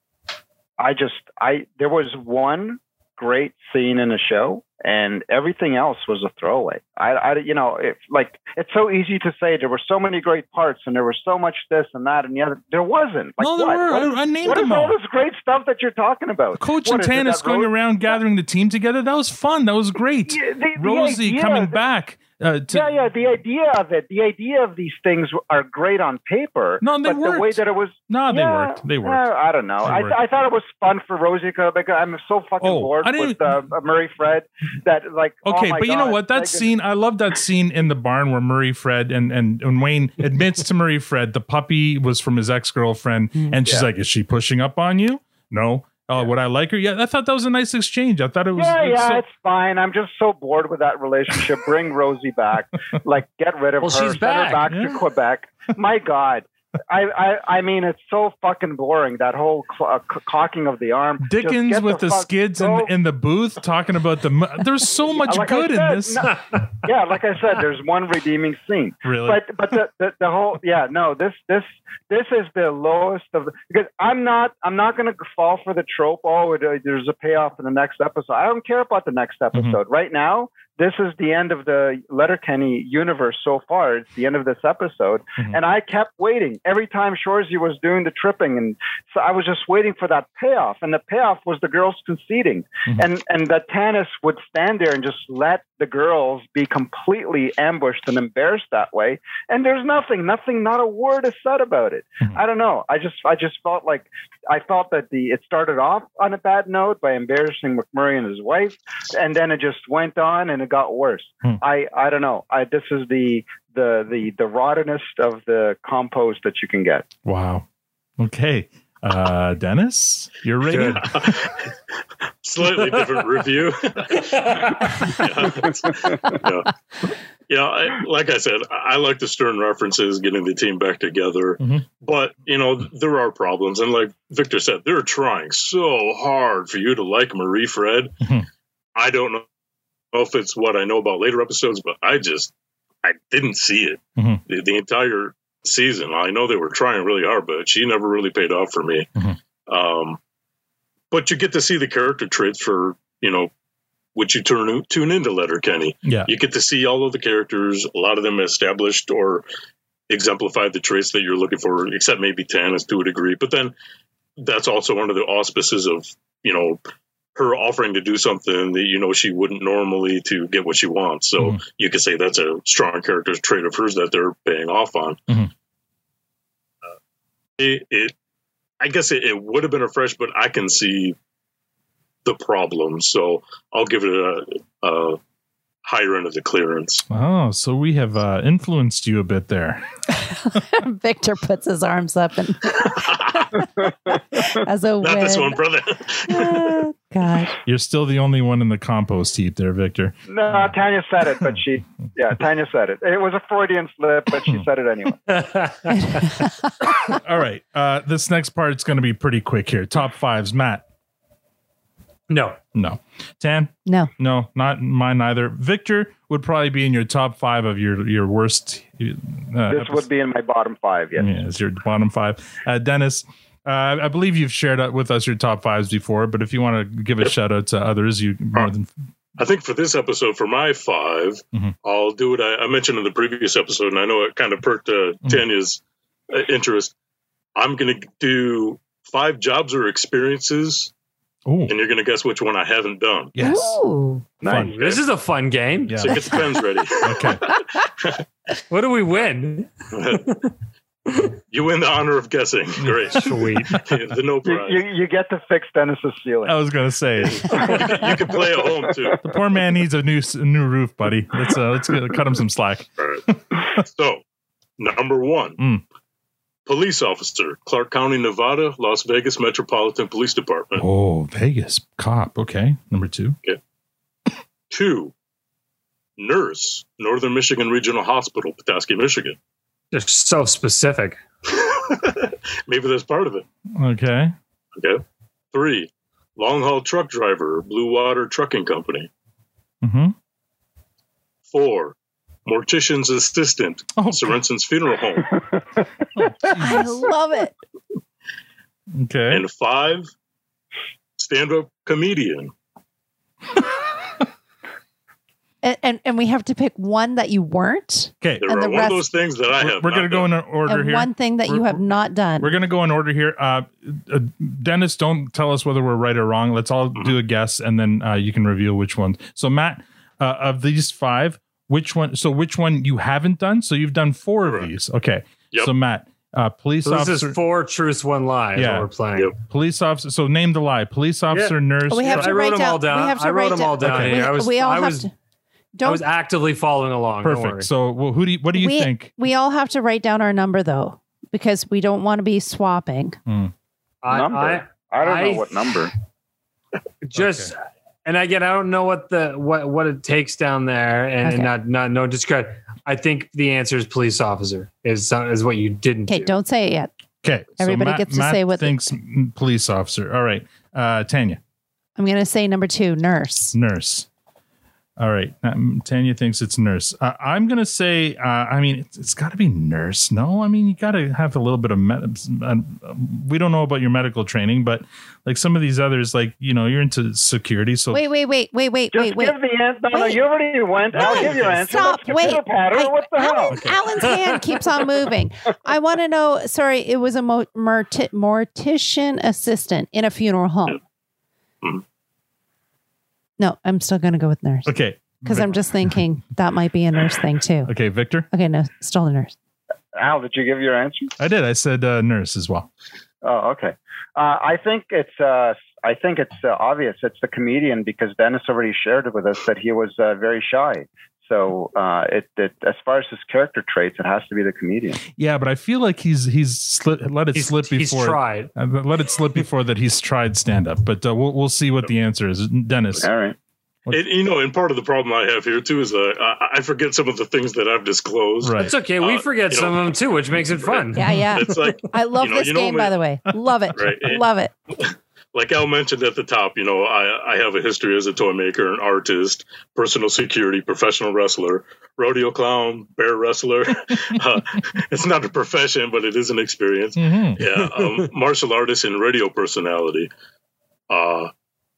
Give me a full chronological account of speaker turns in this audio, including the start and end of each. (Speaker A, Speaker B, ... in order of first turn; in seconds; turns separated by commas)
Speaker A: 0.8-17.7, Speaker B: 13.4-14.9, Speaker B: 16.6-22.9, Speaker A: 20.3-21.8, Speaker A: 22.7-36.7, Speaker B: 26.8-29.2, Speaker B: 29.8-30.2, Speaker B: 32.6-33.6, Speaker B: 35.5-49.2, Speaker A: 48.6-62.9, Speaker C: 53.8-54.6, Speaker B: 54.7-55.0, Speaker B: 61.2-66.3, Speaker A: 65.2-117.1, Speaker B: 69.0-69.4, Speaker B: 79.5-79.8, Speaker B: 117.2-117.7, Speaker B: 118.2-121.3, Speaker C: 120.7-121.0, Speaker D: 121.0-121.6, Speaker D: 122.4-126.7, Speaker C: 124.4-124.7, Speaker D: 127.5-138.1, Speaker D: 139.0-139.5, Speaker D: 140.1-142.5, Speaker D: 143.0-149.1, Speaker B: 144.2-144.4, Speaker D: 149.7-150.2, Speaker D: 151.1-153.5, Speaker D: 154.2-159.4, Speaker B: 156.1-156.3, Speaker D: 160.1-163.7, Speaker D: 164.4-166.8, Speaker D: 167.3-175.2, Speaker D: 177.6-178.1, Speaker D: 178.8-181.2, Speaker D: 182.2-185.2, Speaker D: 185.8-187.0, Speaker B: 187.1-189.8, Speaker E: 190.2-193.7, Speaker D: 192.9-193.5, Speaker E: 194.4-195.6, Speaker D: 195.0-196.7, Speaker E: 196.3-197.6, Speaker B: 197.7-200.8, Speaker A: 200.3-205.3, Speaker C: 205.3-206.1, Speaker E: 205.9-206.9, Speaker B: 207.1-210.8, Speaker C: 212.3-212.6, Speaker B: 212.7-220.1, Speaker A: 219.7-221.3, Speaker B: 221.2-228.9, Speaker D: 229.4-236.9, Speaker D: 237.6-240.9, Speaker B: 241.5-241.7, Speaker D: 241.7-243.3, Speaker B: 243.3-243.8, Speaker E: 243.4-244.3, Speaker C: 244.4-245.9, Speaker B: 244.4-244.8, Speaker D: 244.5-245.0, Speaker B: 245.9-246.2, Speaker D: 246.0-247.2, Speaker B: 247.0-247.4, Speaker C: 248.7-249.7, Speaker D: 249.9-250.2, Speaker D: 251.5-253.2, Speaker B: 252.8-253.1, Speaker C: 253.1-253.7, Speaker D: 253.8-254.8, Speaker A: 254.4-256.6, Speaker B: 256.4-257.7, Speaker D: 257.4-259.2, Speaker B: 259.2-263.8, Speaker D: 263.8-264.2, Speaker D: 264.8-265.6, Speaker B: 265.6-265.8, Speaker D: 266.7-270.9, Speaker B: 270.8-273.4, Speaker D: 274.7-275.1, Speaker D: 276.2-279.4, Speaker C: 279.9-281.2, Speaker D: 281.5-283.5, Speaker B: 283.8-284.4, Speaker D: 284.8-285.0, Speaker D: 285.5-289.1, Speaker B: 289.8-290.1, Speaker D: 291.5-295.3, Speaker B: 294.0-294.4, Speaker B: 296.2-296.9, Speaker E: 296.5-297.5, Speaker B: 298.9-299.4, Speaker D: 299.3-300.1, Speaker D: 301.2-302.5, Speaker E: 305.6-309.0, Speaker D: 308.4-310.3, Speaker B: 309.6-311.8, Speaker E: 310.7-312.5, Speaker B: 312.4-327.4, Speaker C: 326.8-329.3, Speaker B: 328.6-328.9, Speaker B: 329.4-332.3, Speaker E: 331.9-335.1, Speaker C: 332.1-335.1, Speaker B: 333.8-334.1, Speaker E: 335.8-336.0, Speaker C: 335.9-337.7, Speaker B: 337.2-339.1, Speaker E: 338.6-343.2, Speaker B: 343.3-343.5, Speaker C: 344.0-345.5, Speaker A: 344.1-345.9, Speaker C: 347.0-356.4, Speaker B: 347.1-347.5, Speaker E: 351.2-351.5, Speaker E: 356.1-356.9, Speaker B: 357.2-361.4, Speaker E: 357.6-358.8, Speaker E: 362.0-363.5, Speaker B: 363.5-364.1, Speaker B: 365.0-378.0, Speaker E: 377.9-379.4, Speaker A: 378.9-383.6, Speaker E: 379.9-380.2, Speaker B: 381.0-381.5, Speaker E: 381.0-390.8, Speaker B: 383.5-384.0, Speaker E: 393.4-394.7, Speaker B: 394.7-396.0, Speaker E: 395.2-397.7, Speaker B: 397.7-398.3, Speaker E: 398.3-399.4, Speaker A: 400.0-401.1, Speaker B: 401.2-402.7, Speaker A: 403.2-415.0, Speaker B: 415.1-423.1, Speaker C: 417.4-418.5, Speaker A: 423.0-423.4, Speaker D: 423.9-433.0, Speaker B: 428.4-428.7, Speaker C: 428.6-431.0, Speaker E: 430.9-434.5, Speaker D: 433.7-434.2, Speaker D: 435.3-450.1, Speaker B: 447.0-447.4, Speaker D: 450.9-451.3